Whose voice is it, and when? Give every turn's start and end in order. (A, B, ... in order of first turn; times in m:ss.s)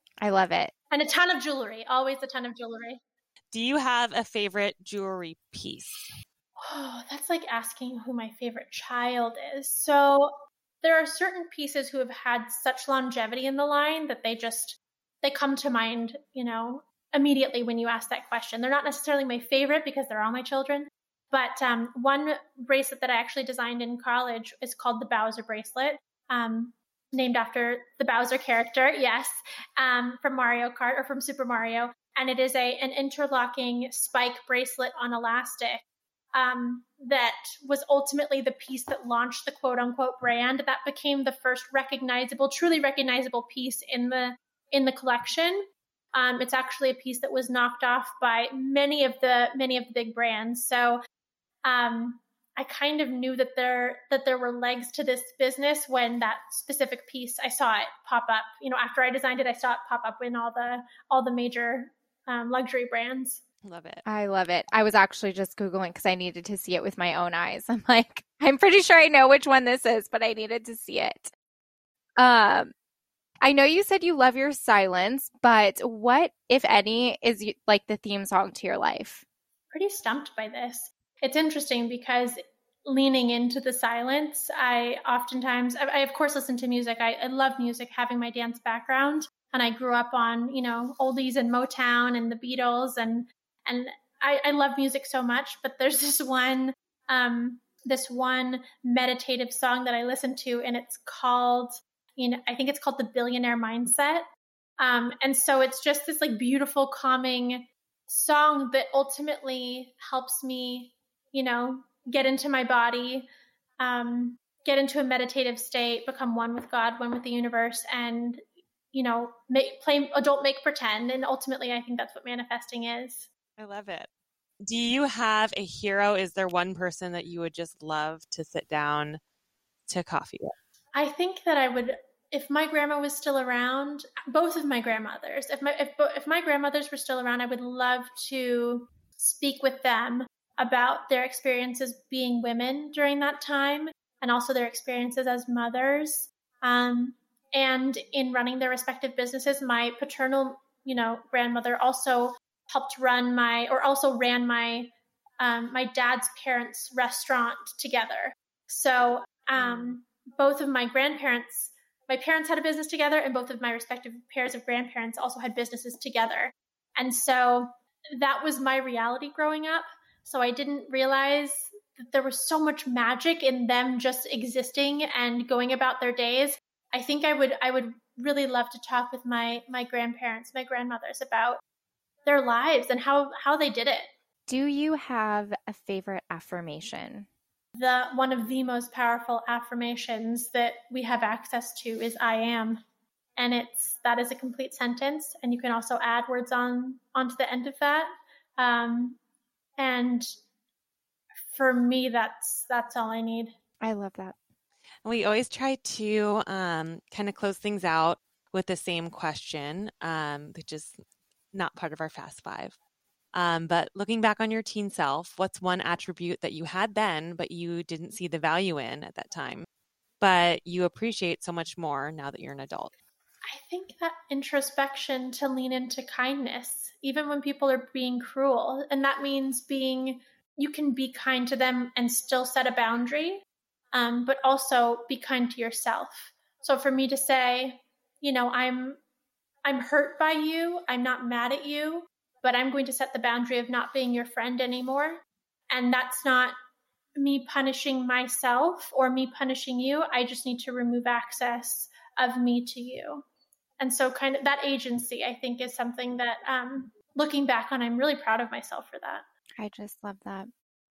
0:00.2-0:00.7 A
0:00.9-0:03.0 B
0:03.5-0:06.1 C
0:06.6-0:35.8 B
0:36.3-0:51.0 B
0:51.6-1:03.4 B
1:03.6-1:04.0 C
1:04.0-1:11.3 A
1:12.2-1:12.7 A
1:13.4-1:19.2 A
1:19.7-1:44.3 B
1:44.8-1:53.3 B
1:53.8-2:03.3 B
2:03.6-2:04.1 C
2:04.6-2:09.2 C
2:09.9-2:10.5 C
2:11.0-3:01.6 B
2:39.6-2:39.9 C
3:02.3-3:04.1 B
3:04.5-3:07.3 A
3:07.8-3:12.8 B
3:13.4-3:19.2 B
3:19.8-3:20.3 B
3:21.5-3:23.5 B
3:23.8-3:24.4 A
3:25.0-3:31.0 C
3:31.5-3:32.8 C
3:33.3-3:39.7 C
3:40.2-3:42.9 C
3:43.5-3:53.4 B
3:53.9-3:59.0 B
3:59.6-4:06.6 B
4:07.2-4:13.2 B
4:13.8-4:19.2 B
4:19.6-4:20.5 A